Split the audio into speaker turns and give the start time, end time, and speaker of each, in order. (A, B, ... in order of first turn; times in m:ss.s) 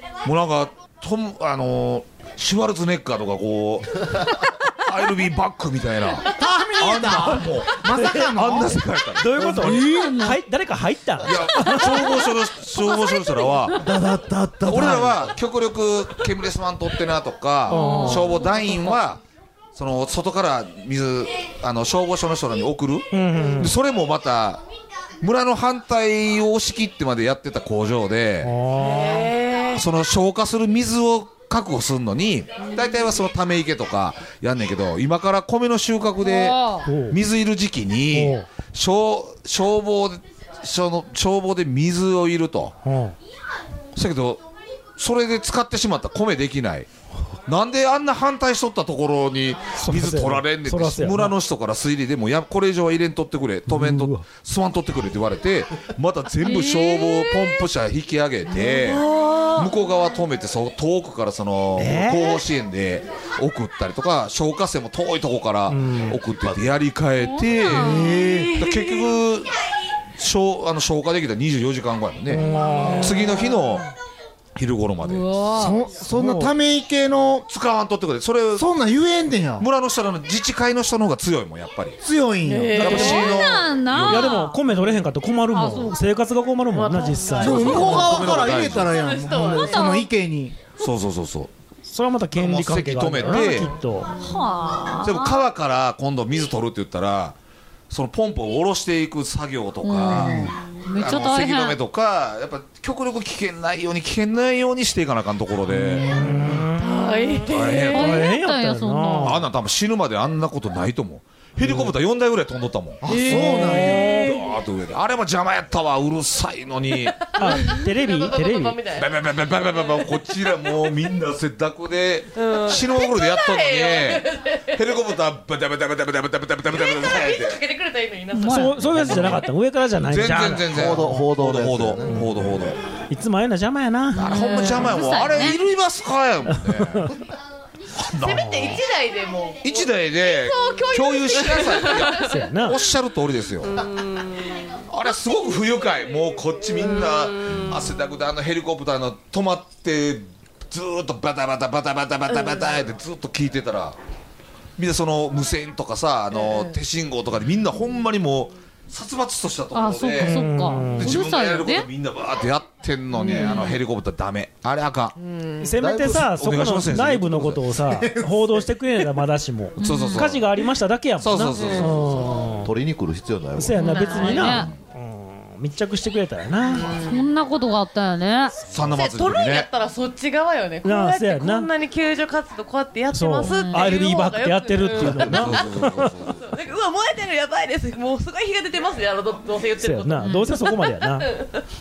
0:00.2-0:09.8 A
0:06.3-0:08.8 B
0:09.2-0:12.0 C
0:09.5-0:10.4 D
0:11.2-0:13.8 A
0:13.9-0:14.9 B
0:14.6-0:15.0 C
0:14.6-0:19.2 A
0:17.7-0:18.4 C
0:17.7-0:18.6 D
0:19.7-0:24.6 A
0:23.1-0:23.8 C
0:25.2-0:28.5 A
0:28.4-0:29.3 C
0:28.8-0:29.8 E
0:29.7-0:42.7 A
0:32.6-0:33.1 E
0:36.2-0:36.8 D
0:36.8-0:37.2 C
0:38.1-0:38.4 C
0:42.8-0:43.2 C
0:43.9-0:44.4 A
0:45.0-0:46.9 A
0:47.5-1:09.5 A
0:49.8-0:51.4 C
0:53.7-0:54.2 C
0:56.4-0:57.3 D
0:58.6-0:59.7 E
1:01.8-1:02.4 C
1:05.7-1:06.2 C
1:07.2-1:08.1 D
1:07.7-1:09.1 E
1:07.8-1:08.5 B
1:10.2-1:13.8 A
1:12.3-1:13.1 C
1:12.8-1:13.8 E
1:14.5-1:15.4 A
1:15.0-1:15.8 D
1:15.5-1:17.4 B
1:16.0-1:16.5 C
1:17.5-1:18.7 A
1:18.6-1:19.6 B
1:19.6-1:22.0 A
1:22.0-1:23.0 B
1:22.4-1:23.4 E
1:22.8-1:24.4 A
1:22.8-1:23.2 C
1:22.9-1:24.6 D
1:24.1-1:27.9 C
1:25.5-1:25.9 D
1:26.7-1:30.0 E
1:27.4-1:29.0 A
1:27.4-1:30.6 B
1:29.5-1:30.0 D
1:30.8-1:31.5 A
1:31.9-1:34.1 C
1:32.4-1:33.7 A
1:34.2-1:35.4 D
1:35.0-1:37.4 A
1:37.9-1:46.3 A
1:39.8-1:41.8 D
1:46.0-1:47.1 C
1:46.8-1:48.1 E
1:47.5-1:48.2 A
1:47.9-1:49.3 D
1:47.9-1:49.4 C
1:49.2-1:57.4 A
1:51.6-1:51.9 C
1:53.0-1:54.3 B
1:53.1-1:54.3 E
1:57.4-1:58.8 C
1:57.4-1:59.1 E
1:59.0-2:07.6 A
1:59.7-2:00.1 E
2:02.3-2:04.8 E
2:06.7-2:08.7 E
2:08.3-2:08.8 D
2:08.4-2:10.7 C
2:08.9-2:09.4 A
2:10.0-2:12.8 A
2:10.7-2:12.3 F
2:12.1-2:12.3 C
2:13.1-2:14.3 C
2:14.1-2:17.1 A
2:14.2-2:15.6 D
2:16.5-2:17.1 C
2:18.0-2:18.8 A
2:18.2-2:22.4 E
2:19.6-2:23.8 A
2:22.2-2:22.8 C
2:23.6-2:24.8 E
2:24.9-2:34.0 A
2:26.8-2:28.0 E
2:32.3-2:32.7 E
2:34.8-2:40.4 A
2:36.3-2:36.8 E
2:39.7-2:41.9 D
2:40.2-2:41.2 C
2:41.0-2:45.1 A
2:43.2-2:43.8 E
2:45.2-2:45.7 E
2:45.6-2:52.7 C
2:45.8-2:46.2 F
2:45.9-2:47.6 A
2:49.8-2:50.2 D
2:49.8-2:50.4 A
2:51.2-2:52.0 A
2:51.5-2:52.1 E
2:52.6-2:53.8 F
2:53.6-2:56.9 C
2:53.8-2:54.6 E
2:53.8-2:54.7 D
2:56.6-2:57.3 E
2:57.0-2:58.5 D
2:58.7-2:59.7 A
2:58.8-3:05.8 E
3:00.8-3:01.7 C
3:03.1-3:06.1 C
3:03.4-3:04.0 D
3:05.0-3:06.5 A
3:06.3-3:10.4 E
3:09.8-3:11.3 C
3:10.2-3:10.5 D
3:11.2-3:11.6 E